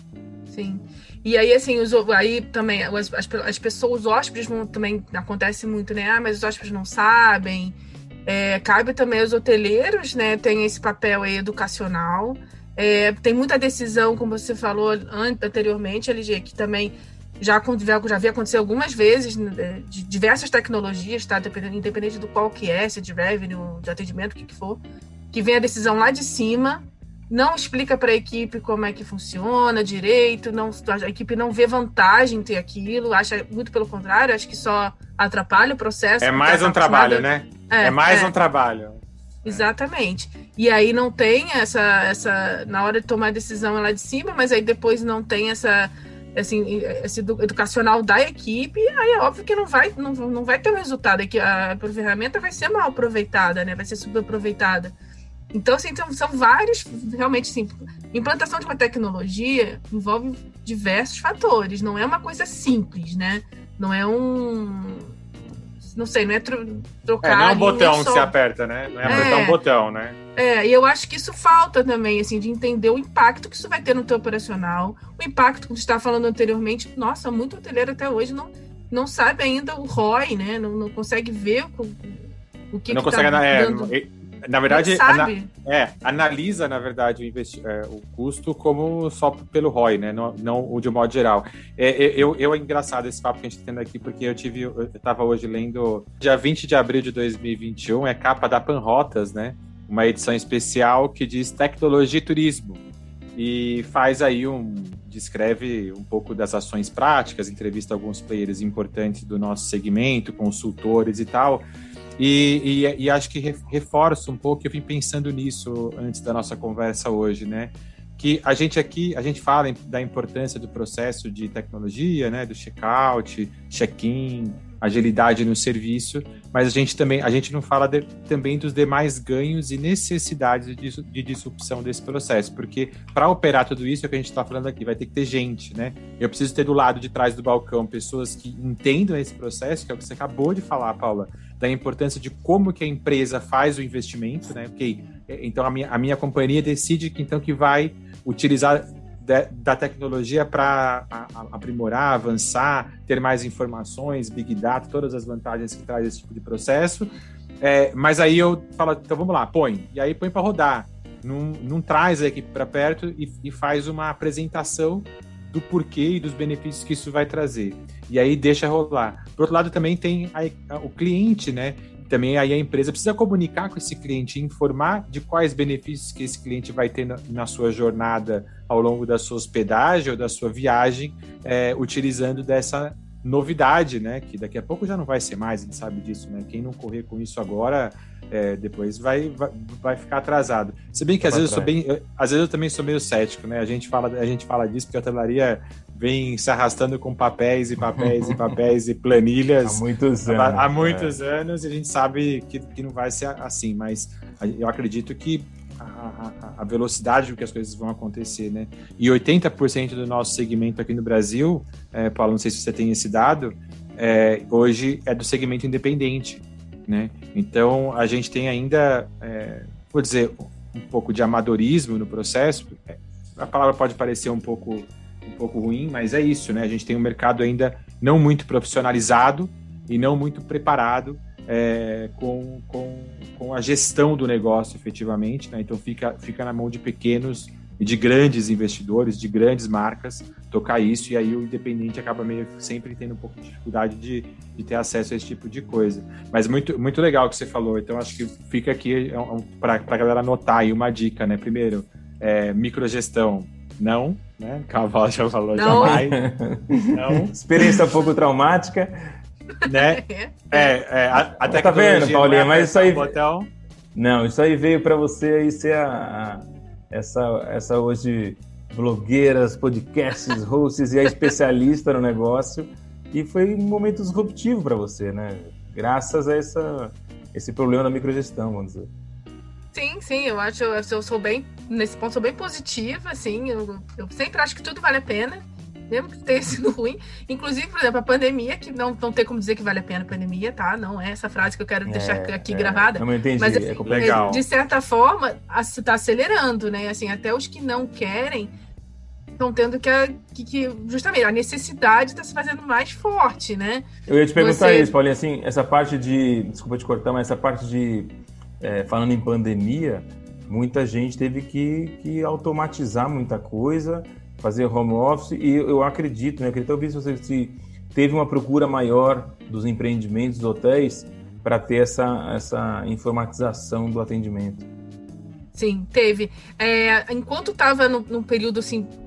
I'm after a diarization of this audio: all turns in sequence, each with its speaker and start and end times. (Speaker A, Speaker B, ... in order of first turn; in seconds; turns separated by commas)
Speaker A: 0.5-38.3, Speaker B: 36.2-39.6, Speaker A: 39.5-55.0, Speaker A: 55.5-65.2, Speaker A: 65.8-68.3, Speaker B: 67.2-70.2, Speaker A: 69.0-69.6, Speaker A: 70.4-83.9, Speaker B: 82.9-102.8, Speaker A: 84.7-85.5, Speaker B: 103.4-111.7, Speaker B: 112.2-256.2, Speaker C: 191.2-191.7, Speaker C: 197.9-198.4, Speaker C: 199.6-201.2, Speaker A: 255.5-256.1, Speaker C: 255.7-259.1, Speaker B: 256.9-257.3, Speaker A: 259.6-260.7, Speaker B: 259.7-263.5, Speaker C: 261.4-263.2, Speaker C: 263.9-278.9, Speaker A: 279.7-298.5, Speaker C: 291.9-294.4, Speaker B: 293.9-294.4, Speaker A: 299.4-304.9, Speaker C: 304.1-324.7, Speaker A: 325.5-328.9